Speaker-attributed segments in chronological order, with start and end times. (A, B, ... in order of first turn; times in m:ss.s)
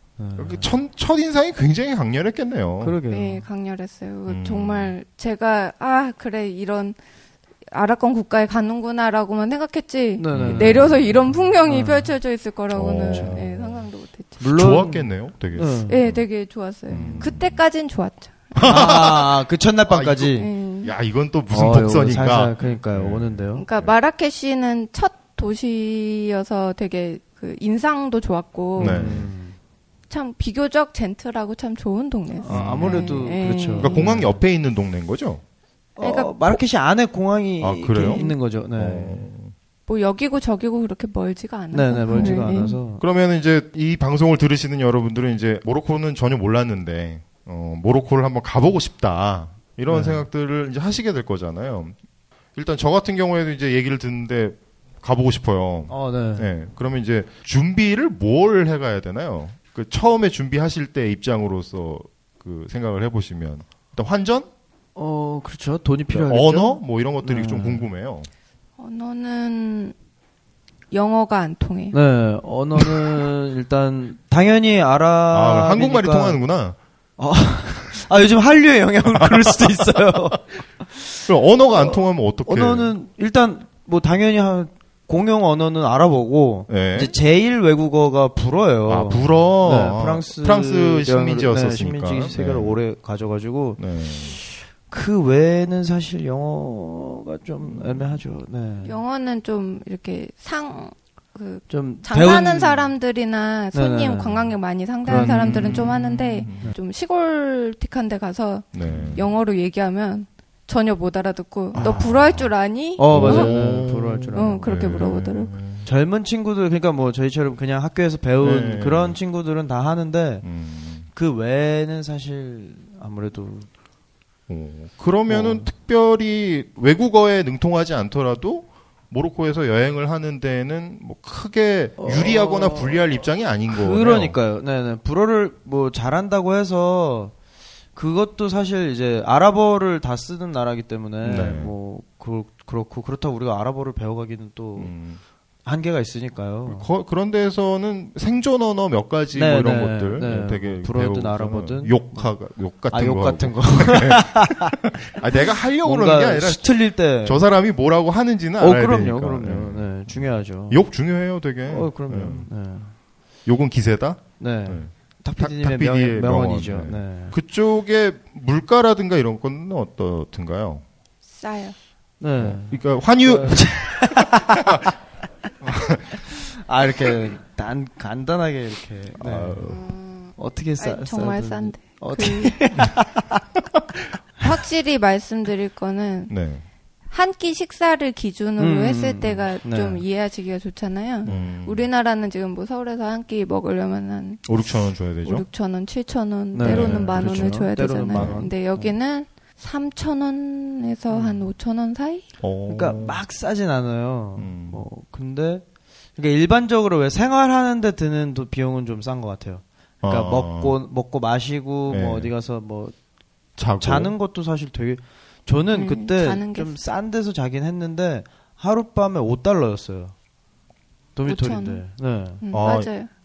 0:00.2-0:00.7 A
0:00.4-0:03.0 B
0:02.8-0:03.4 A
0:03.1-0:07.0 C
0:04.3-0:04.9 B
0:07.7-0:14.4 C
0:10.2-0:11.1 A
0:10.3-0:11.3 B
0:11.6-0:12.1 A
0:12.7-0:13.8 B
0:13.1-0:13.4 A
0:14.4-0:16.0 A
0:14.4-0:16.2 B
0:15.9-0:18.7 C
0:16.9-0:17.6 B
0:16.9-0:17.3 A
0:18.5-0:23.9 B
0:18.6-0:20.5 A
0:20.4-0:20.9 C
0:21.5-0:23.6 A
0:23.6-0:29.1 C
0:28.8-0:29.5 A
0:28.8-0:29.3 B
0:30.1-0:34.2 C
0:32.4-0:34.4 A
0:32.5-0:33.3 B
0:33.8-0:35.4 B
0:36.0-0:39.3 A
0:36.0-0:36.6 C
0:37.6-0:39.5 B
0:37.9-0:38.3 C
0:39.9-0:42.8 C
0:41.7-0:43.0 A
0:42.1-0:52.0 B
0:49.9-0:50.2 A
0:52.5-1:04.5 B
0:55.9-0:56.5 A
1:05.0-1:07.9 A
1:06.1-1:08.3 B
1:08.8-1:09.9 C
1:10.9-1:12.0 C
1:11.9-1:16.4 A
1:15.3-1:16.8 B
1:17.2-1:20.4 A
1:19.1-1:19.6 B
1:20.9-1:33.8 A
1:21.3-1:22.9 B
1:26.7-1:27.1 B
1:28.9-1:32.8 B
1:33.8-1:34.4 B
1:34.3-1:39.0 A
1:37.6-1:38.1 B
1:38.8-1:53.7 C
1:41.7-1:42.9 A
1:43.7-1:45.9 A
1:45.0-1:46.7 B
1:48.7-1:49.3 B
1:48.8-1:49.2 A
1:51.7-1:52.5 B
1:51.8-1:52.0 A
1:53.0-1:54.7 A
1:53.1-1:55.9 B
1:54.3-1:55.5 C
1:55.8-2:00.4 A
1:58.4-1:59.2 B
2:00.4-2:01.1 B
2:01.1-2:03.7 A
2:04.5-2:14.4 B
2:05.3-2:05.7 A
2:12.0-2:13.0 A
2:13.7-2:17.3 A
2:18.0-2:24.9 A
2:21.2-2:21.7 B
2:24.8-2:25.2 B
2:25.6-2:26.9 A
2:26.7-2:42.5 B
2:29.3-2:32.3 A
2:32.9-2:34.8 A
2:35.4-2:37.4 A
2:38.6-2:40.8 A
2:41.7-2:42.9 A
2:43.4-2:50.8 B
2:44.4-2:47.4 A
2:51.3-2:51.7 C
2:52.2-2:54.9 A
2:52.4-2:54.8 B
2:55.6-2:56.2 B
2:56.1-2:59.7 A
2:59.2-2:59.9 B
2:59.7-3:02.6 C
3:00.4-3:03.4 A
3:04.4-3:06.3 C
3:06.3-3:06.6 B
3:07.1-3:14.4 C
3:08.6-3:10.0 A
3:11.2-3:11.9 B
3:14.4-3:15.4 B
3:15.2-3:22.2 C
3:16.5-3:18.9 A
3:16.6-3:18.4 B
3:21.1-3:21.4 A
3:22.4-3:23.2 B
3:22.7-3:25.6 A
3:24.4-3:24.8 B
3:26.2-3:32.9 A
3:30.0-3:30.8 B
3:31.9-3:32.3 B
3:33.6-3:34.1 B
3:33.8-3:40.1 A
3:35.7-3:36.8 C
3:41.1-3:42.4 A
3:41.2-3:41.8 C
3:42.4-3:43.1 C
3:42.5-3:42.9 B